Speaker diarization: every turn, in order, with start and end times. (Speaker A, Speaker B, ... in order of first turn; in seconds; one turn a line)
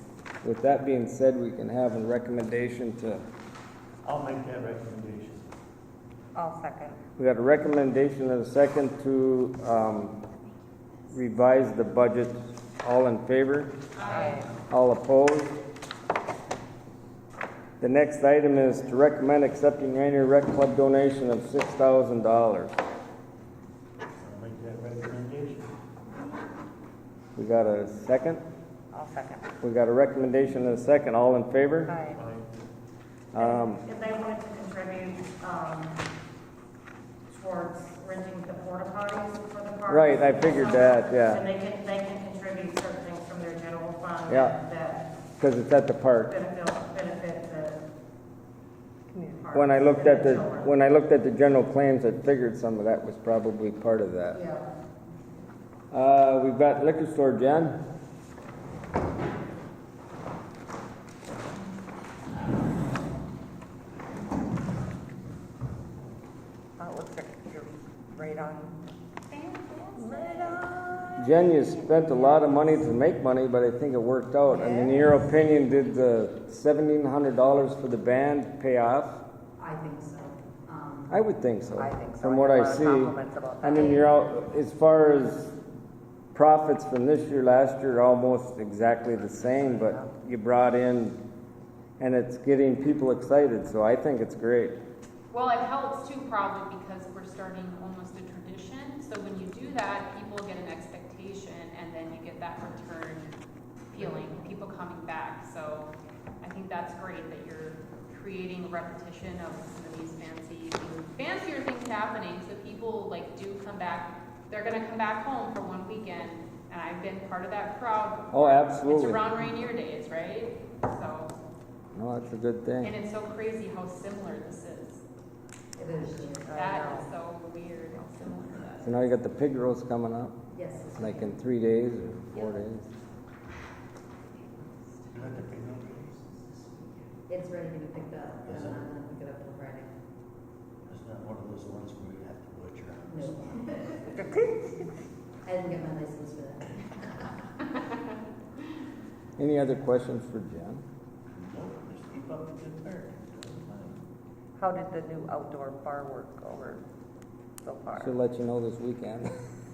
Speaker A: 0.4-3.2
Speaker B: 4.0-5.5
Speaker C: 6.3-7.0
Speaker A: 7.2-10.2
Speaker A: 11.1-13.8
Speaker D: 13.9-14.5
Speaker C: 14.0-14.5
Speaker A: 14.7-15.6
Speaker A: 17.8-22.8
Speaker B: 24.2-25.7
Speaker A: 27.4-28.4
Speaker C: 28.9-29.5
Speaker A: 29.6-31.9
Speaker C: 31.9-32.2
Speaker B: 32.1-32.5
Speaker A: 33.3-33.8
Speaker E: 33.3-36.0
Speaker E: 37.3-45.1
Speaker A: 39.9-41.4
Speaker A: 44.3-44.6
Speaker A: 45.4-46.3
Speaker E: 46.3-47.8
Speaker C: 49.1-49.5
Speaker E: 49.4-50.7
Speaker A: 49.5-54.4
Speaker E: 54.3-54.7
Speaker A: 55.9-57.8
Speaker C: 66.8-68.8
Speaker C: 69.3-71.2
Speaker A: 71.2-79.2
Speaker C: 74.5-75.0
Speaker F: 79.6-81.2
Speaker A: 81.1-85.5
Speaker C: 81.7-83.9
Speaker A: 86.3-91.2
Speaker C: 89.3-90.0
Speaker A: 92.0-94.8
Speaker D: 95.3-103.3
Speaker D: 103.9-121.3
Speaker A: 118.3-119.3
Speaker A: 121.9-123.0
Speaker D: 122.8-125.0
Speaker F: 125.8-127.1
Speaker C: 126.5-127.0
Speaker D: 126.5-129.0
Speaker A: 128.8-130.4
Speaker F: 130.5-131.4
Speaker A: 131.0-132.9
Speaker B: 135.1-136.2
Speaker F: 137.3-139.9
Speaker B: 138.4-138.8
Speaker B: 140.8-143.8
Speaker F: 143.1-144.3
Speaker F: 145.4-147.4
Speaker A: 149.4-150.8
Speaker B: 151.3-154.0
Speaker C: 154.6-156.8
Speaker C: 157.6-158.1
Speaker A: 158.0-159.3